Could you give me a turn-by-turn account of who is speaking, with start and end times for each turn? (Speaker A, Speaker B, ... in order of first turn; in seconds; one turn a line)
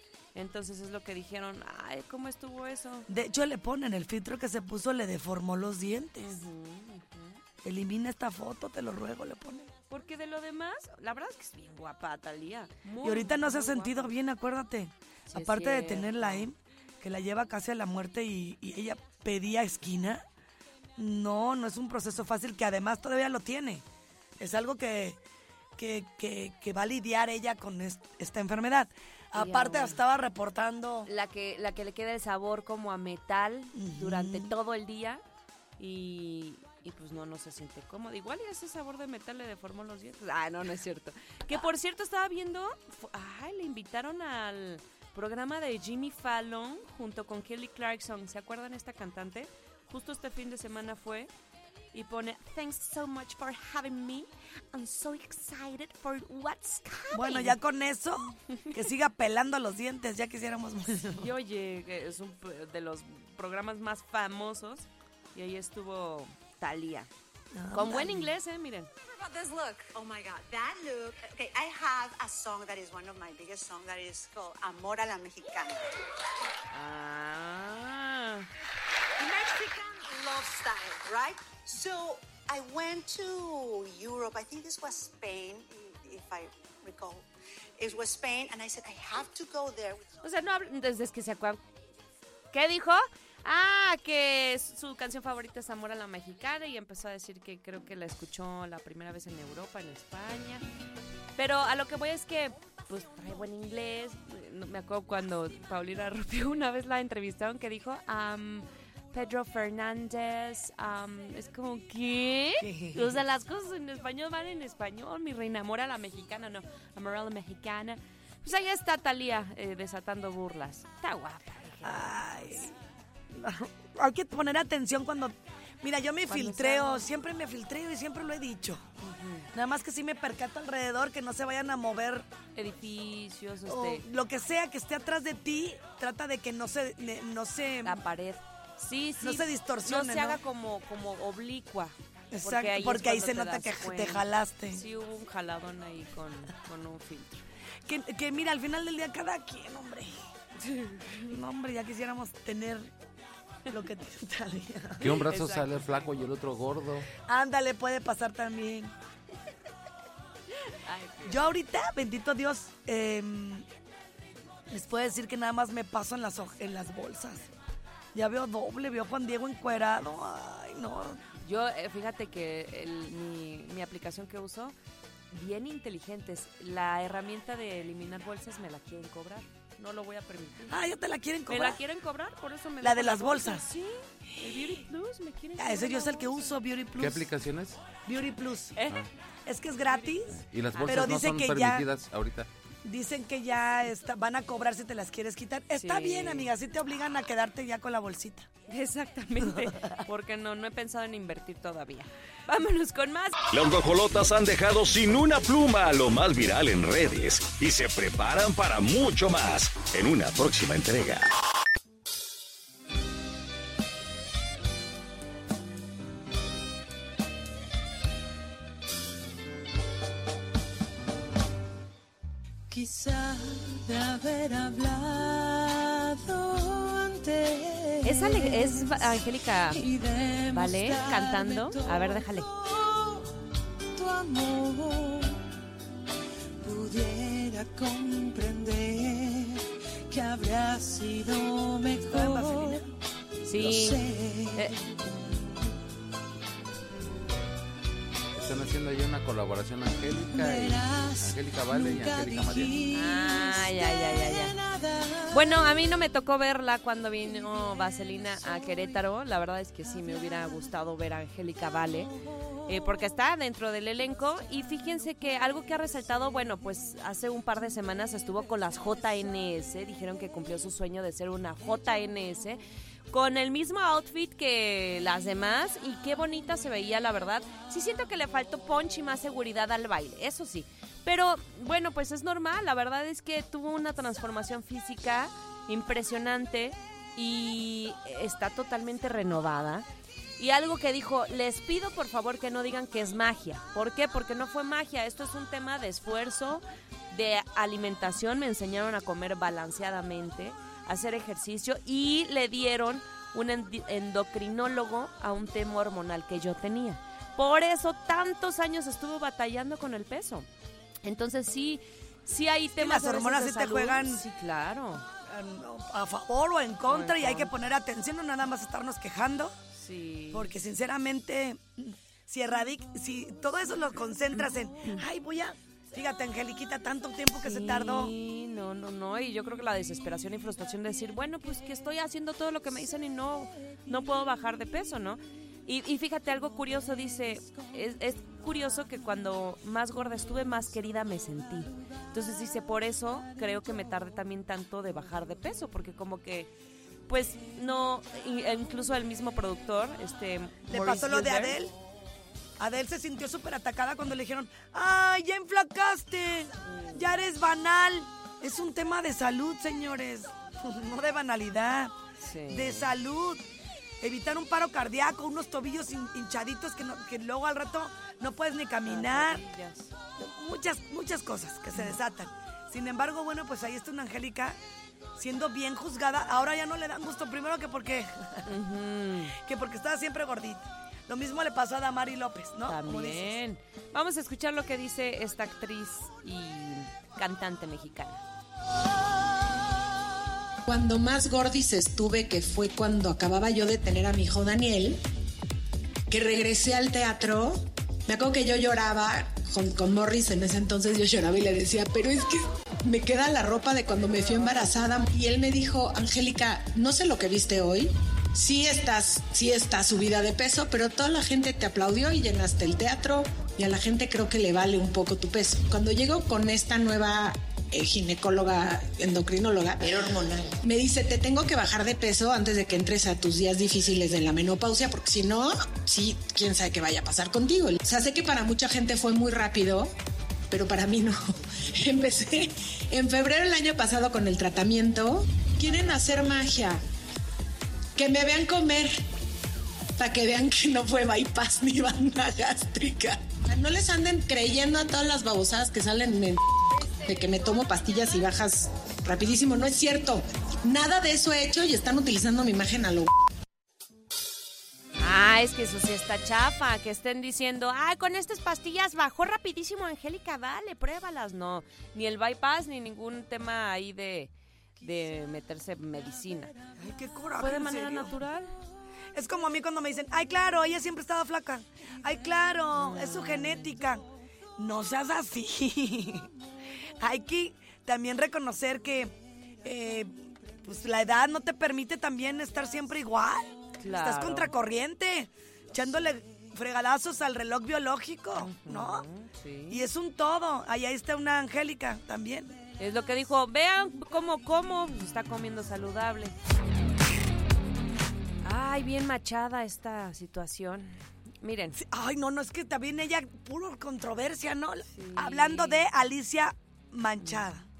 Speaker A: 0.3-3.1
Speaker B: 3.1-6.4
Speaker A: 6.2-7.4
Speaker B: 7.6-9.7
Speaker A: 9.9-14.1
Speaker B: 13.0-20.2
Speaker A: 15.3-16.5
Speaker B: 21.0-23.8
Speaker B: 24.4-25.2
Speaker B: 25.8-31.1
Speaker A: 29.3-30.0
Speaker A: 31.1-35.2
Speaker B: 33.7-34.5
Speaker A: 35.8-51.3
Speaker A: 51.9-57.6
Speaker B: 57.1-61.3
Speaker A: 61.2-67.1
Speaker B: 67.5-68.3
Speaker A: 67.7-68.9
Speaker C: 69.1-75.9
Speaker A: 76.7-78.5
Speaker C: 79.2-87.3
Speaker C: 87.8-90.1
Speaker A: 90.2-91.6
Speaker A: 92.5-100.6
Speaker A: 101.4-122.7
Speaker B: 112.6-113.2
Speaker B: 121.8-122.7
Speaker B: 123.3-128.8
Speaker A: 126.3-127.1
Speaker A: 129.0-129.5
Speaker B: 129.5-132.3
Speaker A: 132.5-134.0
Speaker B: 133.7-138.0
Speaker A: 137.8-147.4
Speaker B: 139.2-140.4
Speaker B: 142.3-144.8
Speaker B: 147.9-150.1
Speaker A: 150.6-151.3
Speaker B: 151.2-152.9
Speaker B: 153.7-155.0
Speaker A: 155.0-156.3
Speaker D: 155.0-157.1
Speaker B: 157.2-158.9
Speaker A: 160.7-161.4
Speaker B: 161.2-163.6
Speaker B: 164.7-167.5
Speaker B: 168.1-171.2
Speaker A: 171.4-174.7
Speaker A: 175.3-180.8
Speaker B: 180.7-181.8
Speaker A: 181.5-186.5
Speaker B: 182.8-183.6
Speaker B: 185.6-187.3
Speaker D: 187.0-187.8
Speaker B: 188.1-188.8
Speaker B: 189.4-191.8
Speaker A: 189.9-190.2
Speaker D: 190.3-192.5
Speaker A: 190.7-191.2
Speaker B: 192.8-198.5
Speaker A: 195.7-196.5
Speaker A: 198.7-203.4
Speaker B: 199.5-200.0
Speaker E: 203.5-211.3
Speaker F: 222.7-233.2
Speaker A: 228.0-229.8
Speaker A: 230.5-232.5
Speaker F: 233.9-235.3
Speaker F: 236.6-242.8
Speaker B: 242.0-242.8
Speaker A: 243.4-244.8
Speaker F: 243.6-245.1
Speaker D: 248.3-252.7
Speaker F: 250.1-255.7
Speaker A: 252.9-254.5
Speaker A: 255.3-262.1
Speaker A: 262.7-289.9
Speaker A: 290.4-310.5
Speaker A: 311.0-315.0
Speaker B: 312.8-314.2
Speaker B: 315.2-319.6
Speaker A: 316.9-317.5
Speaker A: 319.7-320.5
Speaker B: 320.3-328.1
Speaker A: 327.4-346.5
Speaker A: 347.1-351.6
Speaker B: 350.7-351.7
Speaker B: 352.6-361.9
Speaker A: 356.6-357.0
Speaker A: 362.2-362.9
Speaker B: 362.5-363.4
Speaker B: 364.0-369.4
Speaker A: 368.9-369.9
Speaker B: 370.2-374.6
Speaker B: 375.1-378.5
Speaker A: 378.5-379.4
Speaker B: 379.4-383.3
Speaker A: 382.7-388.2
Speaker G: 390.7-395.0
Speaker G: 396.1-429.9
Speaker C: 419.9-420.5
Speaker G: 430.5-431.2
Speaker G: 431.7-436.8
Speaker G: 437.9-439.0
Speaker G: 440.0-453.1
Speaker A: 455.0-466.5
Speaker B: 466.8-468.1
Speaker A: 467.4-468.5
Speaker B: 469.1-474.1
Speaker A: 472.8-473.6
Speaker B: 474.6-476.3
Speaker B: 477.0-489.1
Speaker A: 483.8-484.5
Speaker A: 488.3-489.9
Speaker B: 489.7-492.6
Speaker A: 492.8-496.3
Speaker A: 498.4-501.8
Speaker B: 501.8-507.6
Speaker A: 504.9-505.9
Speaker A: 507.2-507.4